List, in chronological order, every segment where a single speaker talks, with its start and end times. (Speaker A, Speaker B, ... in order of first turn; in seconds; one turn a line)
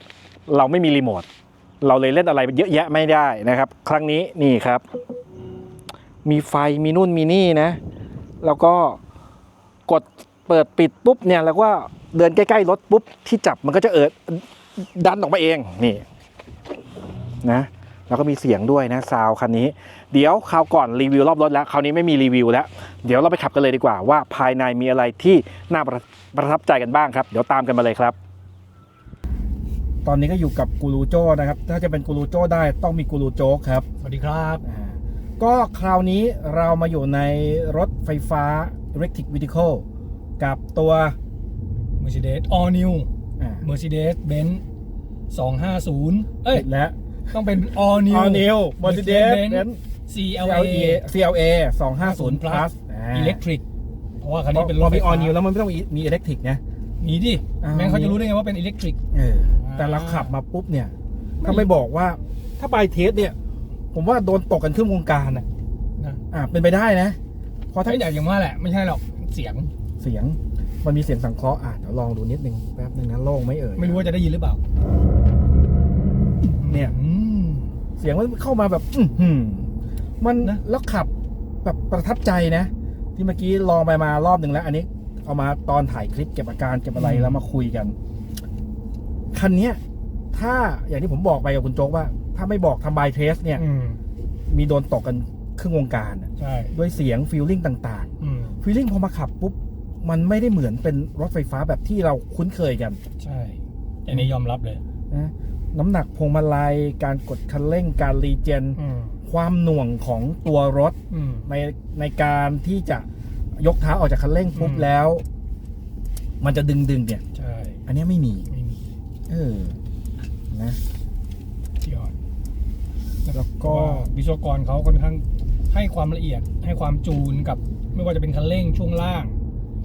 Speaker A: 0.5-1.3
Speaker A: 1.8-4.8
Speaker A: 6.2-7.8
Speaker A: 8.4-9.0
Speaker A: 9.9-16.0
Speaker A: 17.4-28.1
Speaker A: 30.0-33.9
Speaker B: 34.0-34.6
Speaker A: 34.6-39.8
Speaker A: 40.4-41.2
Speaker B: 42.0-43.1
Speaker A: 43.4-43.6
Speaker B: 43.6-44.6
Speaker B: 45.3-46.6
Speaker A: 46.5-49.8
Speaker B: 47.3-51.0
Speaker A: 50.4-53.4
Speaker B: 52.0-53.6
Speaker B: 54.2-55.4
Speaker A: 54.5-56.6
Speaker B: 57.0-59.0
Speaker A: 57.6-58.2
Speaker A: 59.1-63.3
Speaker B: 59.5-60.3
Speaker B: 61.4-61.7
Speaker A: 63.9-65.5
Speaker A: 66.3-67.2
Speaker A: 67.7-68.1
Speaker B: 67.8-69.7
Speaker A: 70.0-74.1
Speaker B: 73.8-74.6
Speaker B: 76.4-77.7
Speaker A: 76.6-76.9
Speaker A: 78.0-79.7
Speaker A: 80.2-81.1
Speaker A: 81.6-87.9
Speaker B: 87.0-87.4
Speaker A: 89.3-89.8
Speaker A: 90.3-93.6
Speaker B: 93.5-94.0
Speaker A: 94.5-103.0
Speaker B: 96.4-96.7
Speaker B: 98.2-98.6
Speaker B: 103.2-104.8
Speaker A: 105.1-111.0
Speaker B: 108.8-109.2
Speaker B: 111.1-111.5
Speaker A: 111.5-113.0
Speaker A: 113.6-115.2
Speaker B: 114.5-114.9
Speaker A: 116.4-117.2
Speaker B: 117.3-117.8
Speaker A: 117.9-118.5
Speaker B: 118.5-118.8
Speaker A: 119.3-119.8
Speaker A: 120.5-120.8
Speaker B: 121.8-122.1
Speaker B: 123.2-129.4
Speaker A: 123.3-124.1